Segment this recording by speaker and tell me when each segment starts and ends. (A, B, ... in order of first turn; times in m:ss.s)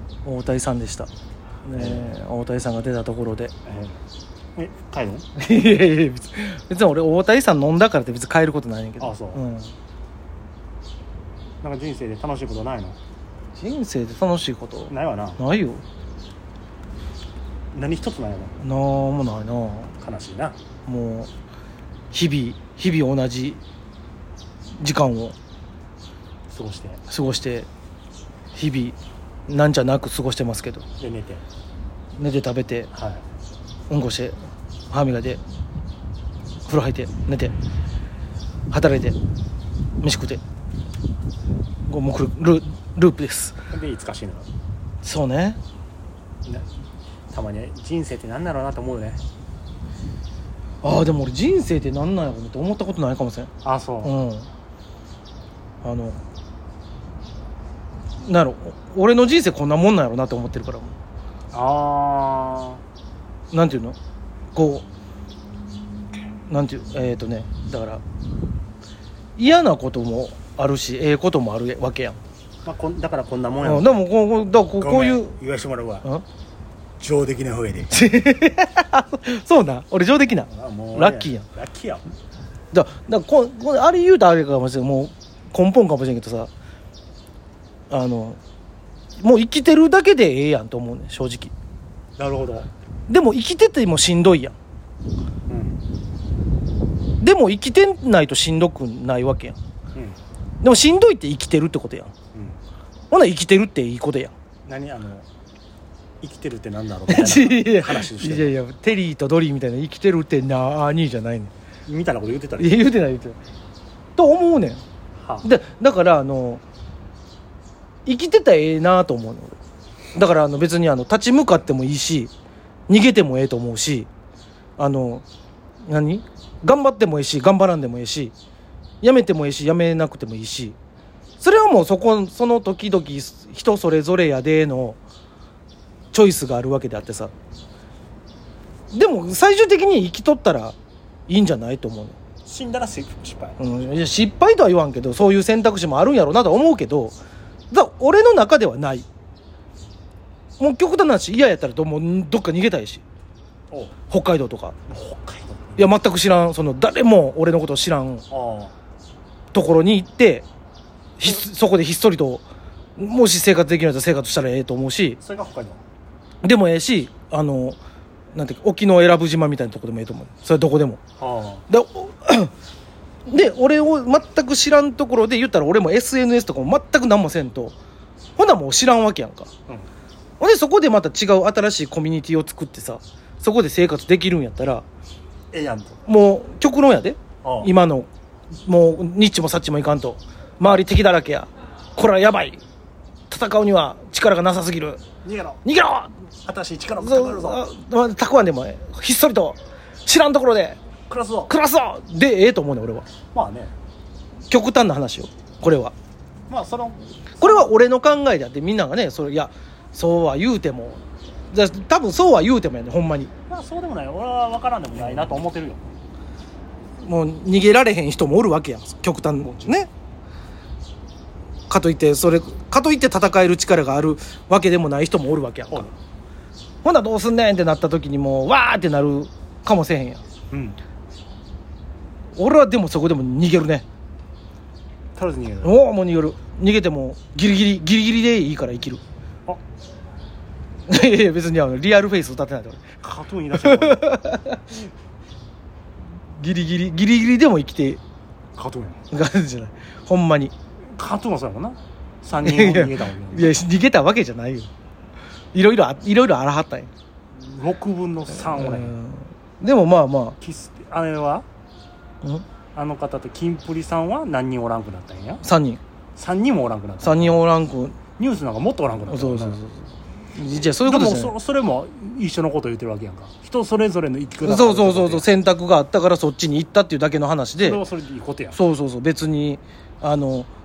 0:00.2-0:01.1 A
0:01.6-0:03.5 A
0:01.8-0:02.2 B
0:03.7-0:04.0 B
0:04.6-0:05.3 B
0:05.4-0:09.7 A
0:09.0-0:09.4 B
0:11.6-0:13.0 B
0:13.6-0:15.8 A
0:14.9-0:15.4 B
0:17.7-0:18.6 B
0:18.6-0:19.9 A
0:20.0-0:20.6 B
0:20.9-0:21.3 A
0:22.1-0:23.6 A
0:24.8-0:25.4 A
0:26.5-0:27.0 B
0:27.1-0:27.7 A
0:28.6-0:29.0 A
0:29.5-0:30.9 A
0:31.0-0:31.4 B
0:32.2-0:32.9 A
0:32.9-0:33.2 B
0:33.9-0:34.4 A
0:34.9-0:35.4 A
0:36.7-0:37.5 A
0:38.7-0:39.2 A
0:40.0-0:40.4 A
0:41.9-0:43.6 A
0:43.7-0:44.5 B
0:45.0-0:45.6 A
0:47.3-0:49.2 B
0:50.8-0:53.5 A
0:53.6-0:54.2 B
0:54.0-0:54.5 A
0:55.8-0:56.2 A
0:58.2-1:01.0 A
1:01.5-1:02.8 B
1:03.5-1:04.0 A
1:04.5-1:04.8 A
1:06.5-1:08.0 A
1:09.4-1:12.2 A
1:12.6-1:14.1 B
1:13.6-1:15.3 A
1:14.8-1:16.1 B
1:17.0-1:18.1 B
1:17.9-1:21.4 A
1:20.5-1:22.0 B
1:22.7-1:26.5 A
1:27.9-1:28.4 A
1:29.2-1:31.5 A
1:32.2-1:32.7 B
1:33.1-1:34.6 A
1:35.5-1:35.8 B
1:37.2-1:39.6 A
1:40.6-1:42.1 A
1:42.3-1:42.6 B
1:43.1-1:44.3 A
1:44.7-1:45.3 B
1:46.2-1:48.5 B
1:47.1-1:51.5 A
1:51.9-1:52.9 B
1:52.6-1:53.4 A
1:54.2-1:54.8 A
1:55.2-1:55.5 B
1:55.4-1:56.6 A
1:58.1-1:59.6 A
2:00.2-2:02.3 A
2:02.9-2:04.1 A
2:04.8-2:05.2 A
2:05.9-2:08.3 A
2:09.0-2:10.8 A
2:11.4-2:15.0 A
2:16.1-2:17.3 A
2:18.9-2:20.8 A
2:21.3-2:22.2 A
2:22.5-2:23.6 B
2:23.6-2:27.2 A
2:27.7-2:29.1 A
2:30.6-2:33.0 A
2:33.7-2:34.0 B
2:34.1-2:34.8 A
2:34.9-2:35.9 B
2:35.8-2:38.2 A
2:38.3-2:38.8 B
2:39.5-2:40.4 A
2:41.2-2:42.5 A
2:43.0-2:45.2 A
2:45.2-2:45.8 B
2:46.4-2:47.8 A
2:48.3-2:51.0 A
2:51.2-2:51.7 B
2:51.7-2:52.5 A
2:53.3-2:57.8 A
2:58.4-2:59.5 A
3:00.4-3:04.8 A
3:05.5-3:06.0 B
3:06.1-3:08.1 A
3:07.4-3:07.7 B
3:08.6-3:12.6 A
3:13.3-3:15.0 A
3:15.2-3:15.6 B
3:15.6-3:16.1 A
3:16.4-3:17.6 B
3:17.0-3:20.8 A
3:21.1-3:21.5 B
3:21.5-3:23.1 A
3:23.3-3:23.7 B
3:24.5-3:25.9 A
3:26.5-3:27.1 B
3:27.4-3:33.3 A
3:33.5-3:35.8 B
3:35.0-3:35.4 A
3:37.0-3:39.9 A
3:39.4-3:39.8 B
3:41.7-3:45.9 A
3:46.8-3:50.2 A
3:50.5-3:50.8 B
3:52.4-3:53.8 A
3:55.2-3:55.8 B
3:55.6-3:59.0 A
4:00.9-4:02.8 A
4:03.0-4:04.2 B
4:03.5-4:04.8 A
4:06.3-4:08.0 A
4:08.6-4:09.0 B
4:09.1-4:10.5 A
4:10.9-4:13.6 B
4:12.4-4:14.7 A
4:15.5-4:16.9 A
4:17.3-4:19.0 B
4:18.3-4:20.4 A
4:20.4-4:21.5 B
4:22.8-4:25.4 B
4:25.4-4:25.8 A
4:26.2-4:27.4 B
4:27.0-4:28.0 A
4:28.2-4:29.6 B
4:29.1-4:29.8 A
4:30.4-4:31.3 A
4:30.8-4:35.3 B
4:34.4-4:37.8 A
4:37.6-4:38.6 B
4:38.5-4:40.5 A